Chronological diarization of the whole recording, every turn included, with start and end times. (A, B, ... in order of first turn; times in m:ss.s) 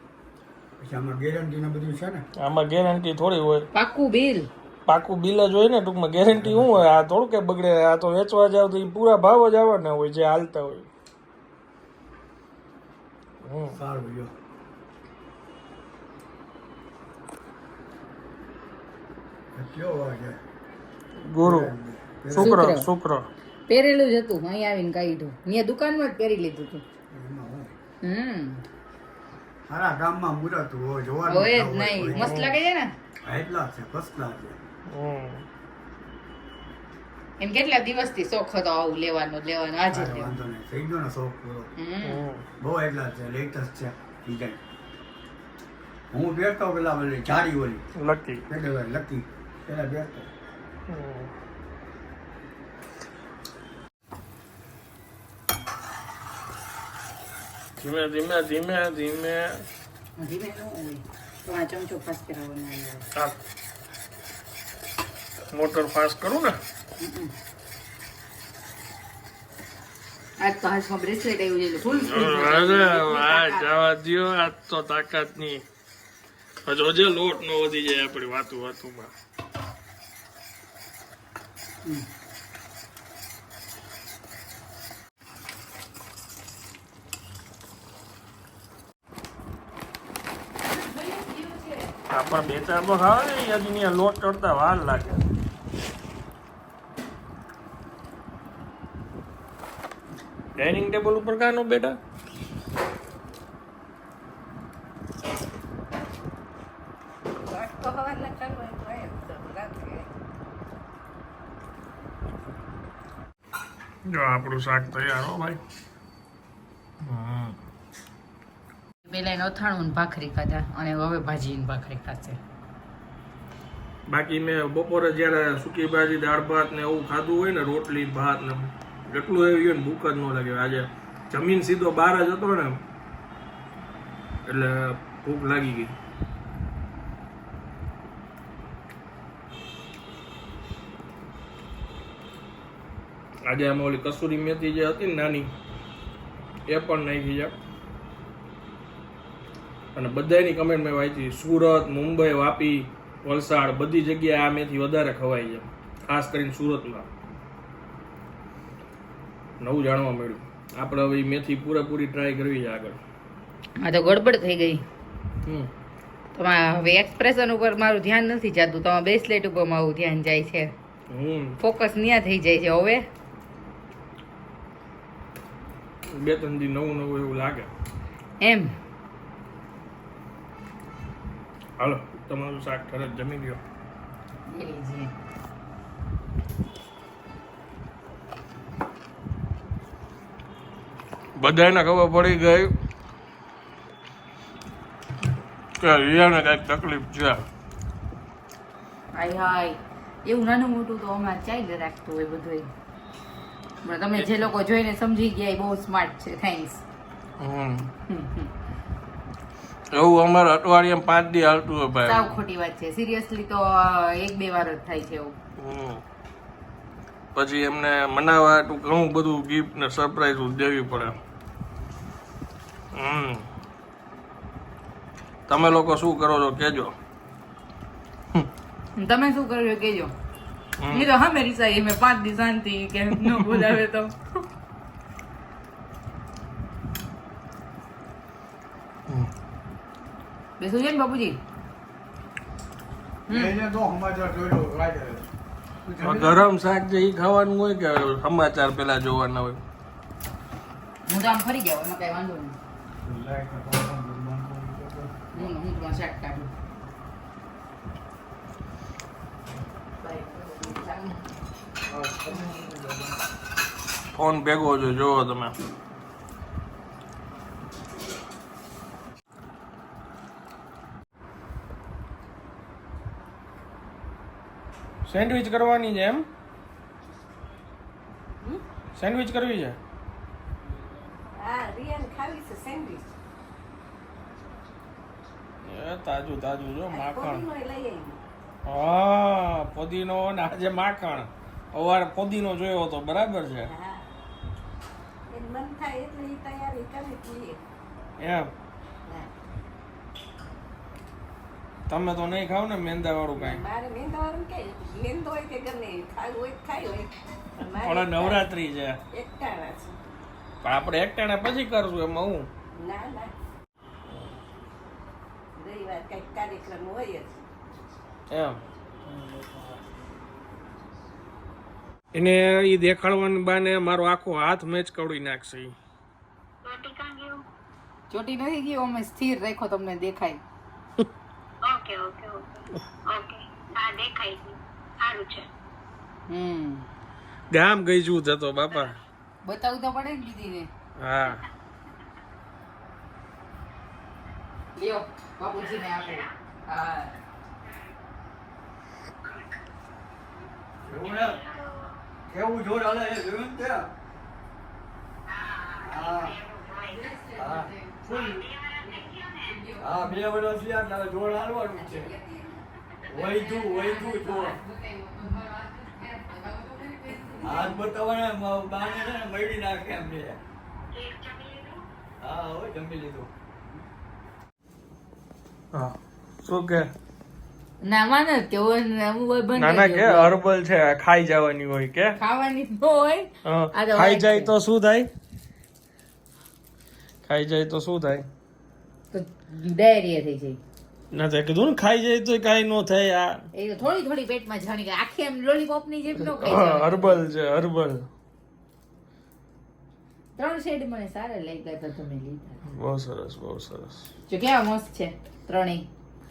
0:00.8-0:02.2 A
0:02.4-0:03.7 B
0:03.7-0:04.5 C
0:04.8-0:10.9 B
0:06.3-0:06.8 A
0:13.4-0:13.8 B
0:13.7-0:14.3 A
0:19.5-0:20.4 A
0:21.2-0:21.7 B
0:21.4-0:22.6 A
0:22.3-0:23.3 B
0:22.3-0:22.9 C
0:23.7-0:26.8 C
0:27.1-0:27.7 A
0:28.0-0:28.6 C
0:29.7-0:32.4 A
0:31.2-0:32.9 C
0:32.2-0:32.6 B
0:33.2-0:34.6 A
0:34.9-0:35.4 B
0:37.4-0:40.4 C
0:39.9-0:41.7 A
0:41.8-0:42.2 C
0:42.0-0:42.4 B
0:42.6-0:44.6 A
0:46.1-0:47.8 A
0:48.0-0:48.4 B
0:48.5-0:50.3 A
0:50.9-0:51.3 B
0:57.8-0:59.6 B
1:00.2-1:03.1 C
1:05.5-1:06.6 B
1:07.0-1:07.3 C
1:10.4-1:13.7 C
1:12.0-1:15.6 B
1:16.6-1:19.1 B
1:32.1-1:35.2 B
1:40.6-1:42.0 B
1:47.4-1:50.1 D
1:54.1-1:55.6 B
1:57.0-1:57.6 B
1:59.0-2:02.4 C
2:04.1-2:12.8 B
2:14.4-2:15.9 B
2:23.4-2:25.5 B
2:26.7-2:27.6 B
2:29.9-2:37.1 B
2:39.6-2:43.0 B
2:43.8-2:44.8 C
2:45.4-2:45.7 B
2:46.3-2:50.7 C
2:51.1-2:51.6 B
2:51.6-2:53.0 C
2:56.1-2:57.7 B
2:58.4-2:58.7 C
3:01.8-3:03.6 B
3:04.5-3:05.1 C
3:11.4-3:12.7 B
3:15.8-3:17.4 B
3:19.1-3:22.7 C
3:23.8-3:26.8 C
3:24.2-3:24.4 B
3:27.4-3:27.9 B
3:28.1-3:28.5 C
3:29.9-3:32.4 B
3:32.0-3:35.4 C
3:35.6-3:36.0 B
3:37.3-3:41.2 B
3:42.9-3:43.5 B
3:45.5-3:46.9 B
3:49.0-3:50.1 C
3:50.8-3:51.1 B
3:50.9-3:54.3 C
4:00.6-4:01.4 C
4:03.3-4:03.6 C
4:03.3-4:05.3 A
4:05.8-4:06.4 A
4:06.0-4:09.6 B
4:11.1-4:12.6 C
4:13.0-4:15.5 A
4:15.3-4:16.5 C
4:20.0-4:21.2 C
4:24.1-4:25.5 B
4:35.0-4:36.2 B
4:38.9-4:39.8 B
4:41.4-4:43.1 D
4:45.6-4:47.4 B
4:46.9-4:48.2 D
4:48.6-4:53.7 B
4:53.6-4:54.0 D
4:55.3-4:57.6 D
4:58.2-4:58.5 B
5:01.9-5:03.6 B
5:03.3-5:08.5 D
5:07.8-5:09.0 B
5:09.1-5:10.0 D
5:10.6-5:12.5 B
5:12.8-5:13.3 D
5:15.6-5:17.4 D
5:18.3-5:18.6 B
5:22.1-5:25.7 B
5:26.6-5:27.4 E
5:28.1-5:30.4 C
5:31.6-5:35.5 E
5:36.3-5:36.9 C
5:37.5-5:39.0 B
5:39.4-5:40.7 C
5:41.0-5:41.4 B
5:44.7-5:47.2 C
5:45.8-5:46.3 E
5:50.8-5:51.4 A
5:51.0-5:52.0 E
5:52.3-5:53.9 A
5:55.3-5:57.3 E
5:55.8-5:56.4 A
5:56.8-5:58.0 C
5:57.4-5:58.5 A
5:58.0-5:59.6 E
5:59.4-6:00.0 C
5:59.8-6:02.1 A
6:03.1-6:04.6 A
6:03.2-6:07.9 C
6:07.4-6:10.4 A
6:10.9-6:11.8 E
6:12.2-6:13.3 A
6:15.7-6:16.9 B
6:17.8-6:20.4 C
6:19.6-6:22.2 B
6:22.2-6:24.5 C
6:23.4-6:25.1 B
6:27.2-6:28.3 B
6:29.1-6:30.6 C
6:31.1-6:33.5 B
6:33.5-6:37.2 C
6:36.2-6:38.1 B
6:40.4-6:42.6 C
6:42.7-6:44.1 B
6:44.3-6:45.9 C